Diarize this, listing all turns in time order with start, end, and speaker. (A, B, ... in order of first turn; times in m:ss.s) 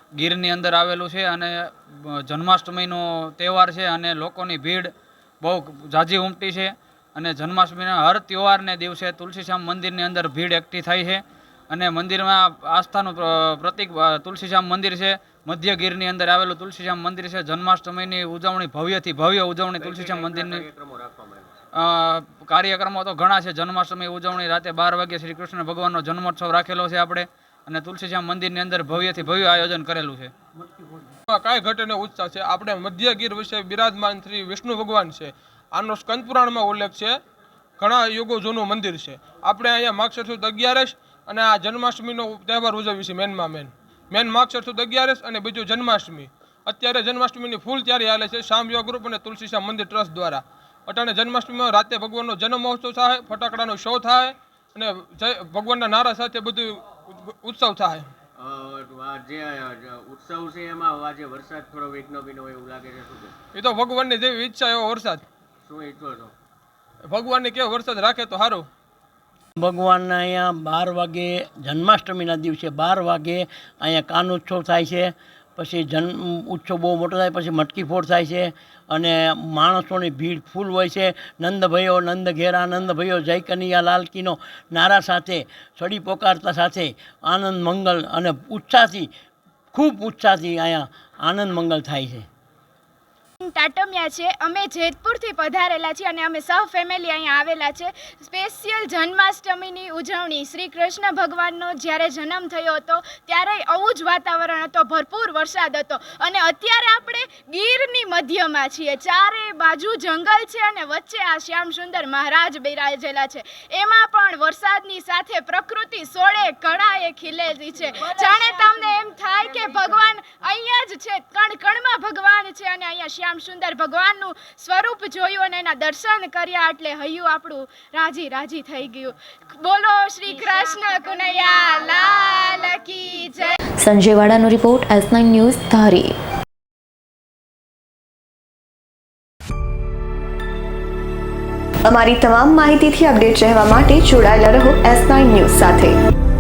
0:00.2-0:04.9 A
0:05.4-0:20.6 A
0:19.8-0:21.5 B
0:21.7-0:30.3 A
0:31.3-0:37.2 C
0:37.8-0:58.1 C
0:58.4-1:03.3 B
1:03.6-1:05.2 C
1:05.7-1:06.3 B
1:07.1-1:08.6 C
1:09.6-1:29.1 D
1:29.7-1:32.3 D
1:33.4-2:13.6 E
2:13.8-2:16.1 F
2:21.9-2:26.0 G